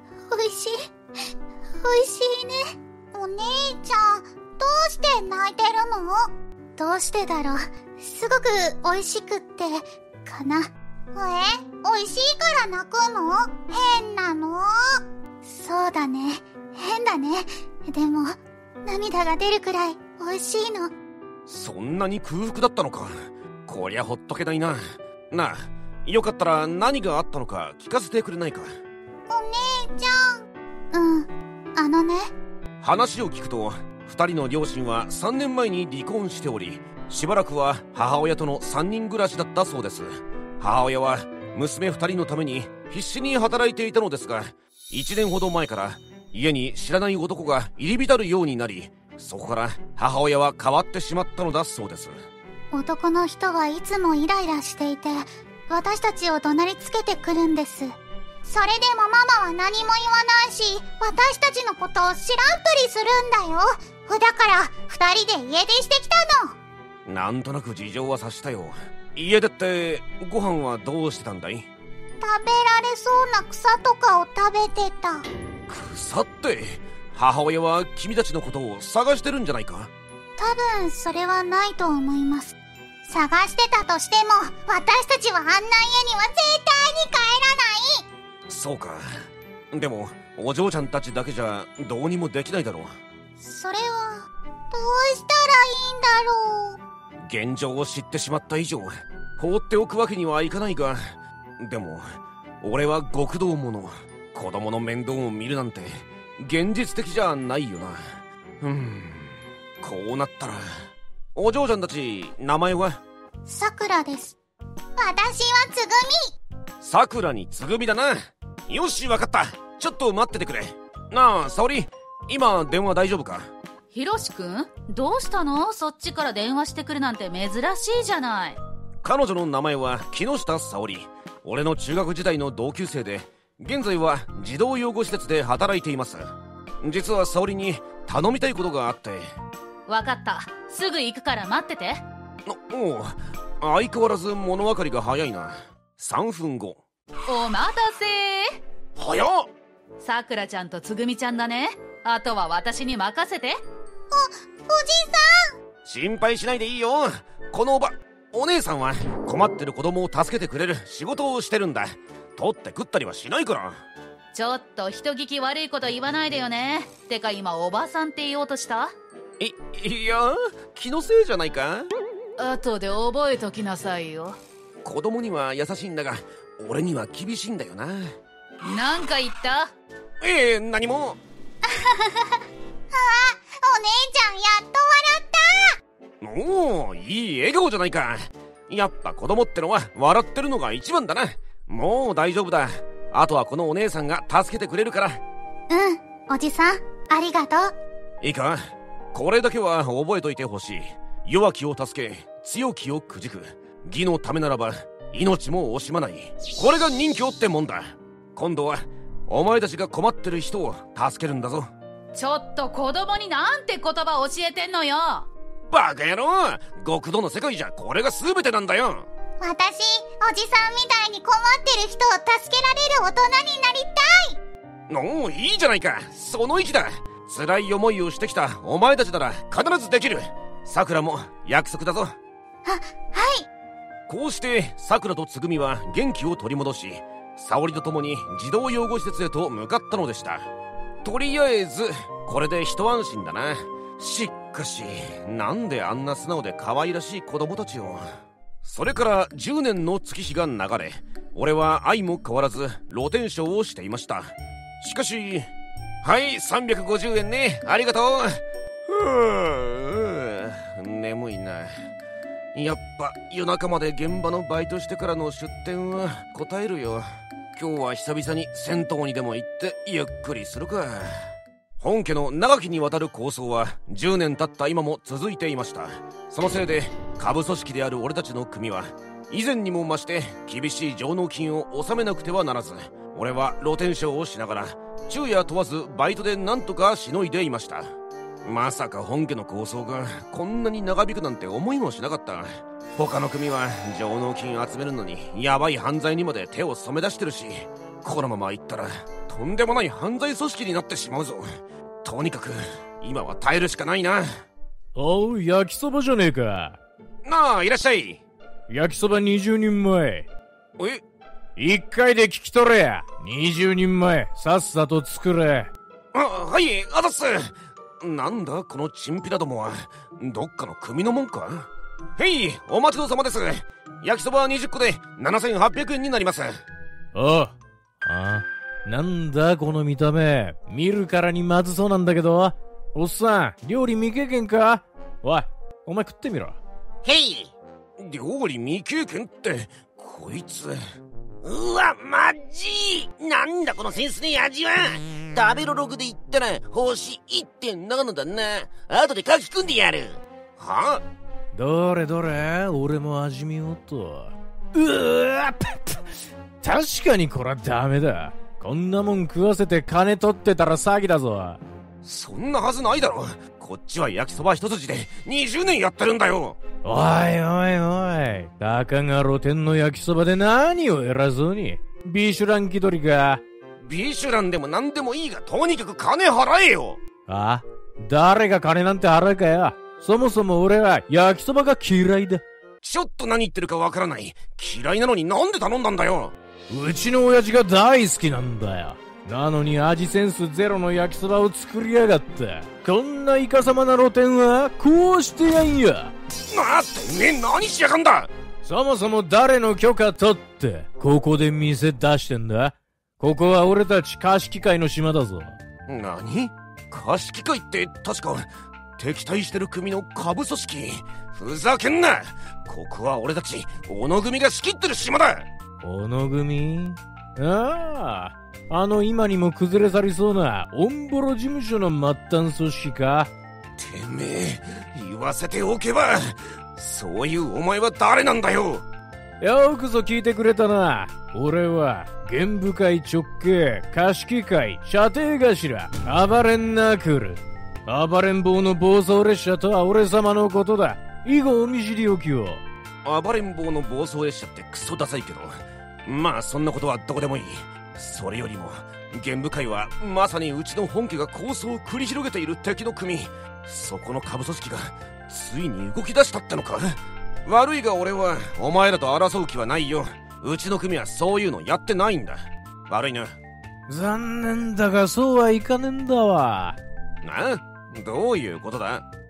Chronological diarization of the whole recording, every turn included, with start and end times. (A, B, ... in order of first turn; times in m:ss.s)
0:00.3-0:00.9 A
0:01.8-0:20.9 A
0:21.5-0:28.7 B
0:29.3-0:32.3 A
0:32.8-0:52.2 B
0:52.7-1:06.6 A
1:07.1-1:11.7 B
1:12.2-1:15.3 A
1:15.7-1:19.9 B
1:20.4-1:28.1 A
1:28.5-1:33.0 B
1:33.4-1:36.8 A
1:37.2-1:50.8 B
1:51.3-1:53.0 B
1:53.5-1:54.3 A
1:55.0-1:56.3 A
1:56.8-2:03.5 B
2:03.9-2:08.6 C
2:09.0-2:19.3 B
2:19.9-2:22.0 C
2:22.5-2:26.8 B
2:27.3-2:28.6 C
2:29.0-2:29.5 B
2:30.0-2:33.6 C
2:34.1-2:35.5 A
2:35.8-2:43.8 B
2:44.3-2:48.9 C
2:49.4-2:51.9 B
2:52.4-2:54.4 C
2:54.8-2:58.2 B
2:58.6-2:59.7 C
3:00.2-3:01.2 B
3:01.6-3:05.8 A
3:06.2-3:15.2 B
3:15.7-3:17.7 A
3:18.2-3:31.7 B
3:32.1-3:35.3 C
3:35.7-3:39.0 B
3:39.4-3:44.4 A
3:44.9-3:52.2 B
3:52.6-3:53.5 A
3:54.1-4:00.5 B
4:01.0-4:08.1 B
4:08.6-4:15.5 B
4:16.0-4:21.8 B
4:22.5-4:47.9 B
4:48.4-5:04.4 B
5:05.0-5:06.8 D
5:07.2-5:08.2 B
5:08.7-5:10.3 D
5:10.8-5:11.0 B
5:11.6-5:15.7 D
5:16.1-5:26.6 B
5:27.1-5:36.6 D
5:37.0-5:40.8 B
5:41.4-5:51.0 B
5:51.5-5:56.0 D
5:56.6-6:01.6 D
6:02.0-6:06.6 B
6:06.8-6:13.4 D
6:13.8-6:17.0 B
6:17.3-6:22.4 D
6:22.8-6:26.3 B
6:26.7-6:36.1 D
6:36.5-6:38.3 B
6:38.6-6:45.6 D
6:45.9-6:55.5 B
6:55.8-7:03.3 D
7:03.8-7:08.8 B
7:09.4-7:22.6 D
7:23.0-7:43.4 B
7:43.9-7:46.8 D
7:47.2-7:49.0 B